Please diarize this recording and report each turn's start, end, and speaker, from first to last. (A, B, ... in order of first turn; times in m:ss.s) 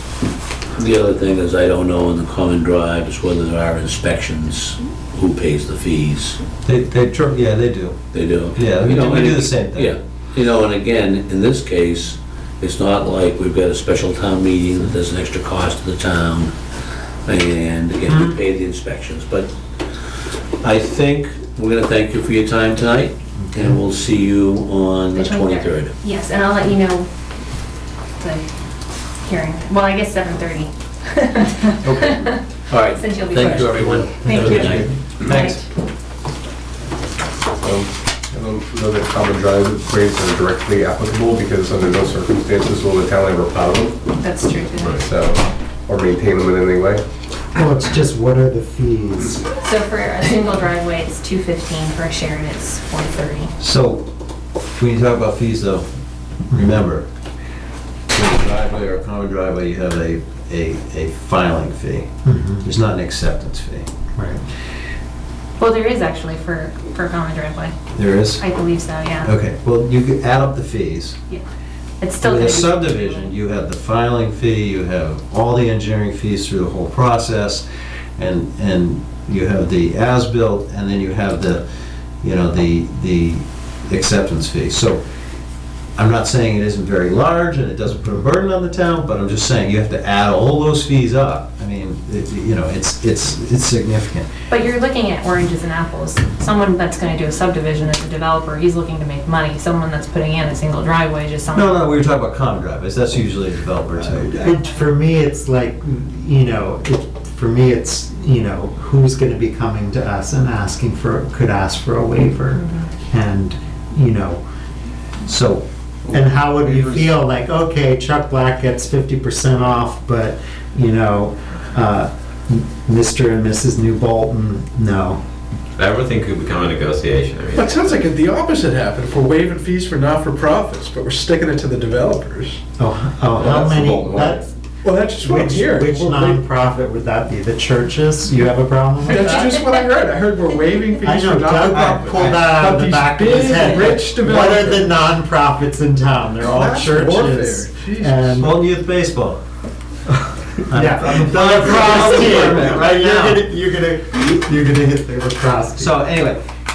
0:00.8-0:06.4 A
0:06.6-0:08.0 B
0:08.1-0:16.5 A
0:08.6-0:09.9 B
0:17.2-0:19.5 A
0:18.1-0:18.4 B
0:20.6-0:25.9 A
0:23.4-0:23.8 C
0:25.1-0:27.1 D
0:28.2-0:28.4 D
0:29.2-0:35.6 D
0:31.8-0:32.2 B
0:32.7-0:34.9 A
0:33.8-0:34.9 C
0:35.2-0:35.6 B
0:37.6-0:44.0 E
0:44.2-0:45.0 D
0:44.8-0:45.0 F
0:45.0-0:47.0 E
0:47.5-0:49.4 C
0:49.6-0:53.5 D
0:53.6-0:54.0 B
0:54.7-0:55.8 B
0:56.5-0:57.0 B
0:58.1-1:02.1 B
1:02.2-1:02.6 C
1:02.6-1:03.9 B
1:04.2-1:04.4 C
1:05.6-1:07.7 D
1:07.9-1:08.4 B
1:08.4-1:09.3 D
1:09.2-1:11.2 B
1:12.0-1:13.2 D
1:12.2-1:17.6 B
1:18.2-1:21.6 B
1:22.2-1:25.0 B
1:26.0-1:34.3 B
1:34.5-1:41.8 D
1:41.5-1:44.3 B
1:43.9-1:54.4 C
1:44.4-1:44.7 D
1:52.6-1:52.8 D
1:55.2-1:55.6 B
1:56.1-2:05.2 C
1:56.6-1:57.0 G
2:05.8-2:07.9 F
2:07.5-2:12.6 G
2:12.8-2:14.5 C
2:13.4-2:16.4 G
2:15.2-2:19.6 C
2:19.0-2:24.9 G
2:21.0-2:28.6 C
2:21.6-2:22.5 B
2:26.4-2:26.7 B
2:26.5-2:28.4 G
2:28.3-2:29.4 B
2:30.1-2:36.0 C
2:30.7-2:33.4 B
2:35.8-2:36.4 B